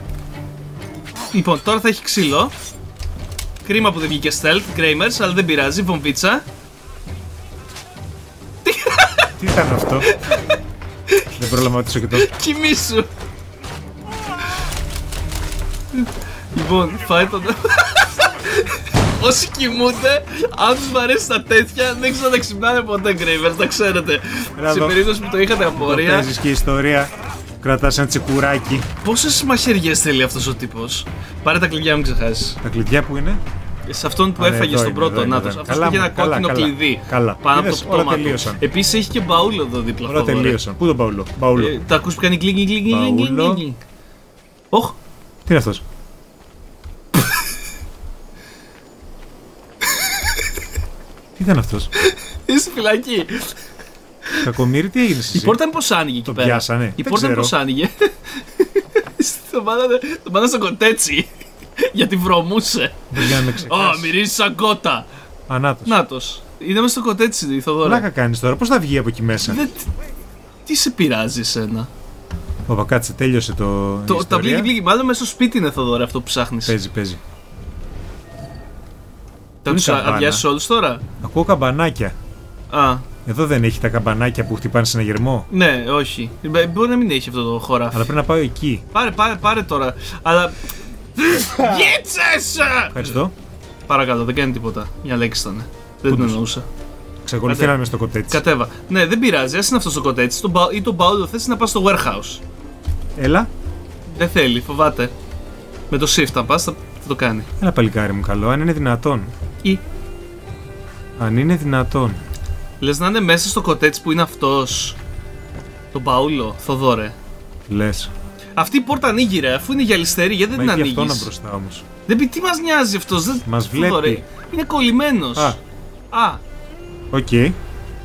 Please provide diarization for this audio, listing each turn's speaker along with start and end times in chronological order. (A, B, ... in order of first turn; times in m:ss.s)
0:01.3-0:02.5 A
0:03.6-0:06.4 A
0:08.6-0:09.4 A
0:09.4-0:10.1 B
0:10.1-0:10.4 A
0:11.4-0:12.3 B
0:12.1-0:13.1 A
0:15.9-0:26.3 A
0:24.6-0:25.1 B
0:25.8-0:28.9 B
0:29.0-0:32.6 A
0:32.6-0:33.4 B
0:33.9-0:40.6 A
0:34.4-0:38.6 B
0:40.1-0:41.8 B
0:41.6-0:43.8 A
0:42.9-0:43.6 B
0:45.5-0:45.8 B
0:49.9-0:50.5 A
0:51.4-0:51.9 B
0:52.0-0:53.6 A
0:54.4-0:55.6 B
0:55.3-1:05.1 A
0:56.2-0:57.5 B
1:03.1-1:04.2 B
1:05.5-1:06.0 B
1:05.8-1:08.0 A
1:07.8-1:09.6 B
1:09.5-1:09.9 A
1:10.7-1:11.9 A
1:12.7-1:14.7 B
1:14.1-1:16.8 A
1:16.7-1:17.2 B
1:19.6-1:21.0 A
1:19.7-1:20.4 B
1:21.2-1:22.2 B
1:22.7-1:23.1 A
1:23.2-1:25.5 B
1:25.5-1:28.1 A
1:27.9-1:28.8 B
1:28.9-1:30.6 A
1:31.2-1:33.2 A
1:31.6-1:31.9 B
1:32.9-1:33.3 B
1:33.9-1:36.7 A
1:36.1-1:36.4 B
1:37.3-1:38.4 B
1:37.5-1:37.8 A
1:38.3-1:42.4 A
1:43.2-1:43.5 B
1:44.1-1:45.1 A
1:45.9-1:47.5 A
1:47.6-1:49.3 B
1:51.2-1:52.2 B
1:52.8-1:55.0 A
1:55.9-1:57.2 A
1:57.7-1:58.1 B
1:58.6-2:01.3 A
2:00.6-2:01.8 B
2:02.1-2:05.6 A
2:03.4-2:04.2 B
2:06.1-2:06.4 A
2:07.1-2:07.6 B